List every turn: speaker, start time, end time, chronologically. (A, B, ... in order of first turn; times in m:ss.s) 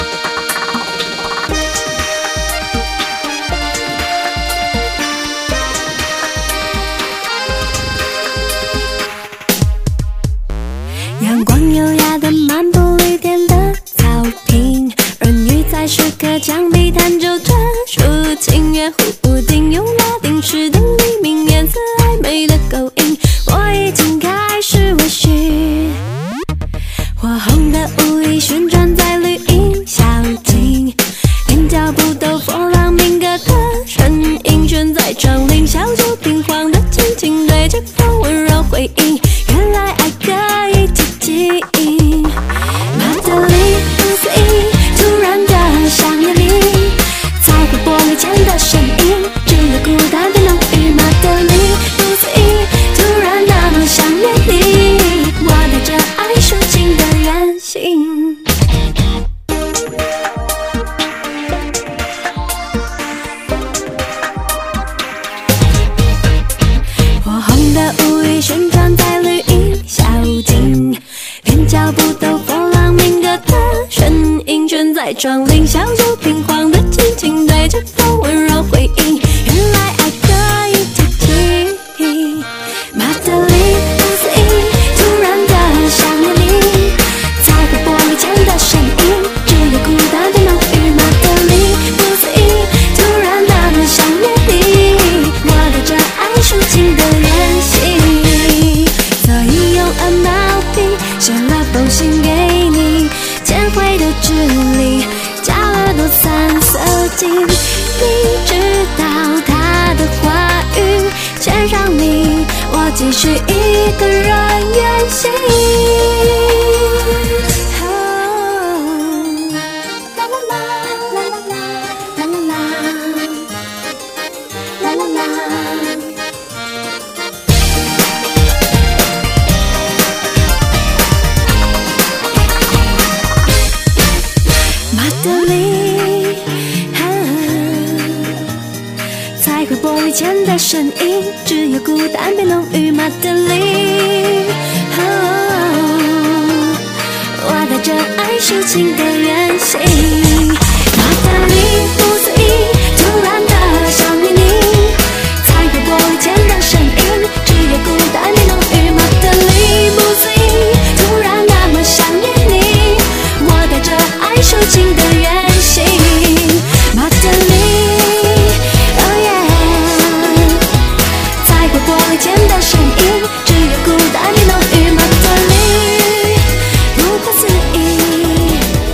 0:11.2-0:26.0 A
0:27.2-0:42.4 A
0:42.9-0:58.5 A
1:07.2-1:59.6 A
2:00.1-2:01.6 A
2:02.1-2:03.5 A
2:04.8-2:06.1 A
2:14.9-2:18.5 A
2:19.4-2:26.8 A
2:27.4-2:50.6 A
2:51.4-2:58.7 A